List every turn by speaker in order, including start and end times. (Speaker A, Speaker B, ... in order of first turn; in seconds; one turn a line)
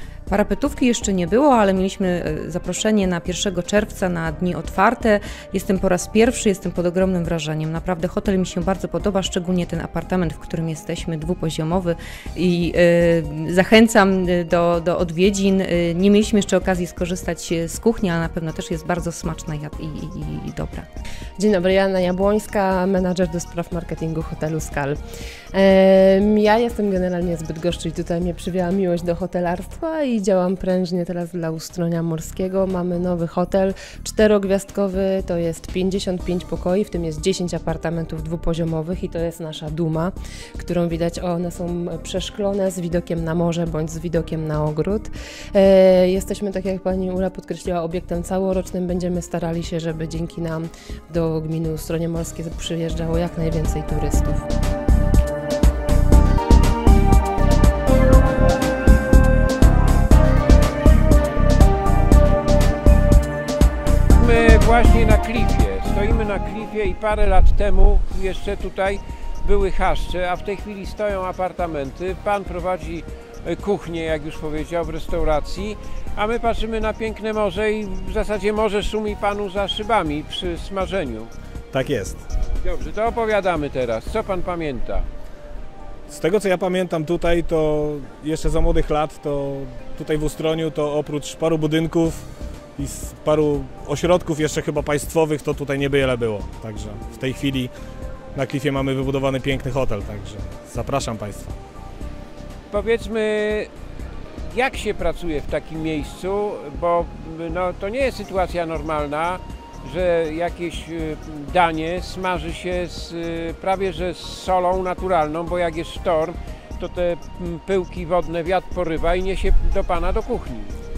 Speaker A: 0.3-20.9
Speaker B: 21.4-25.0
Speaker B: 25.5-54.5
Speaker C: 64.1-81.3
Speaker D: 81.7-82.2
Speaker C: 82.6-85.1
Speaker D: 86.1-97.7
Speaker D: 98.3-101.5
Speaker C: 102.7-103.7
Speaker C: 104.5-120.8